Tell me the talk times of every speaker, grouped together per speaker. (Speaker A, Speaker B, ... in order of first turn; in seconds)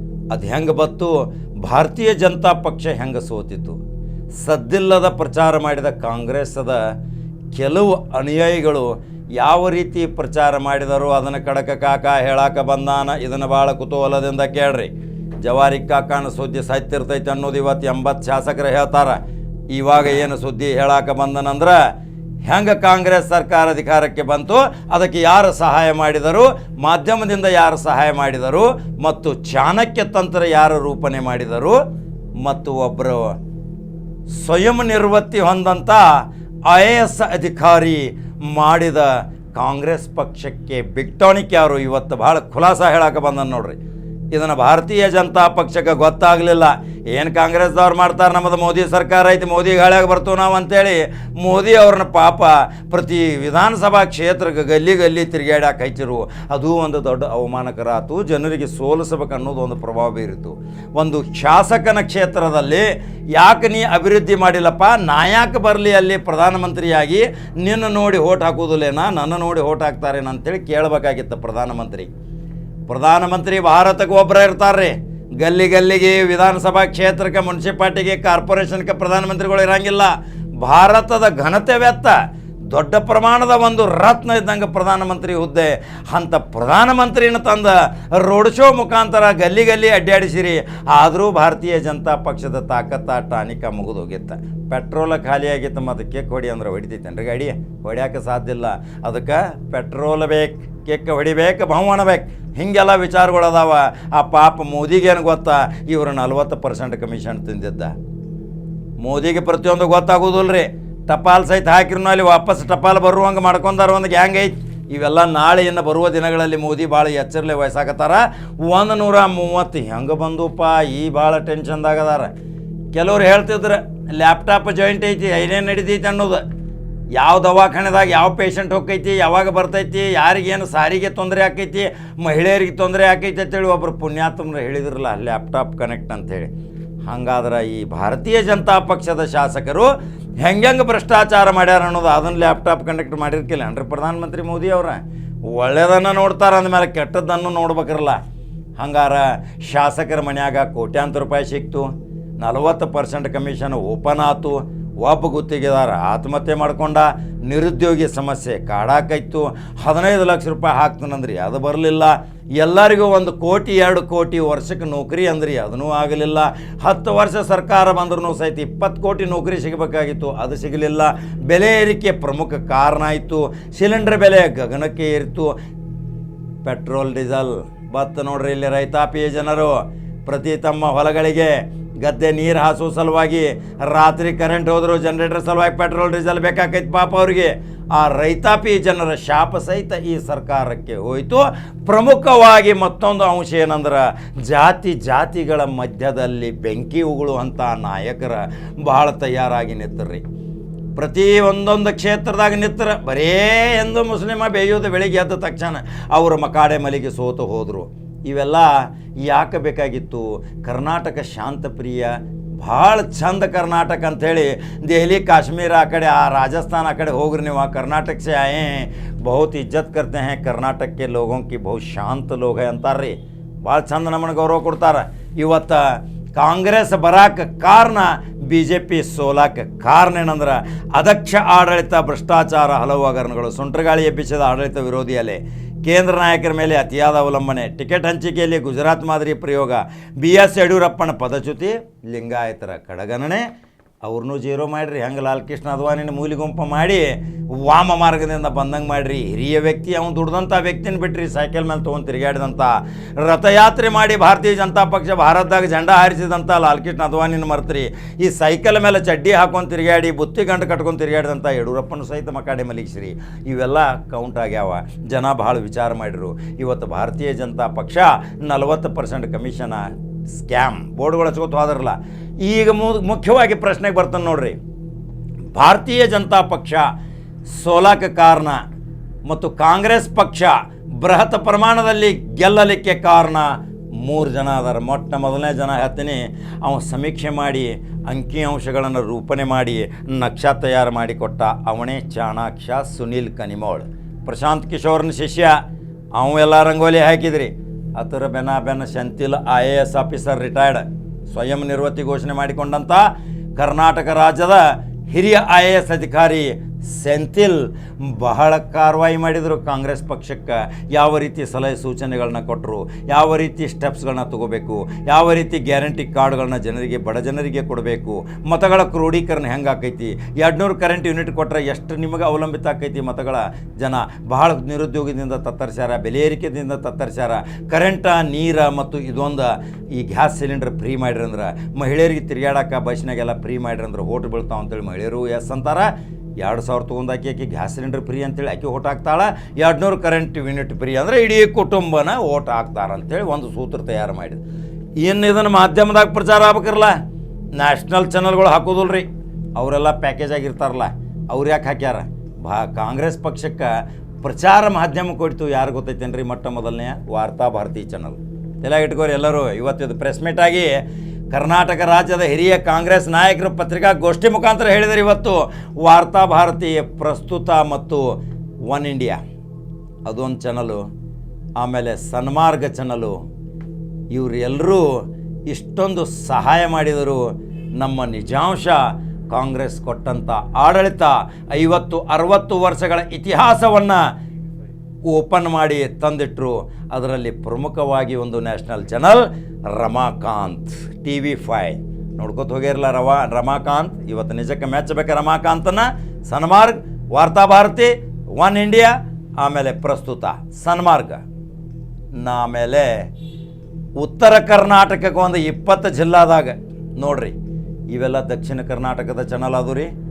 Speaker A: 0.3-3.8, 4.4-6.9, 7.5-19.2, 19.7-21.9, 22.4-31.8, 32.4-33.4, 34.3-43.8, 44.3-72.1, 72.9-82.2, 82.7-108.0, 109.0-122.3, 122.9-126.4, 127.1-136.5, 137.1-148.2, 148.8-175.5, 176.6-200.2, 200.9-243.5, 244.0-274.6, 275.5-276.9, 277.5-278.6, 279.3-295.6, 296.1-344.4, 345.0-347.0, 347.6-353.7, 354.2-368.1, 368.7-369.2, 370.1-370.8, 371.6-373.1, 374.1-374.9, 375.5-384.0, 385.1-401.2, 402.2-403.1, 404.0-407.4, 407.9-409.9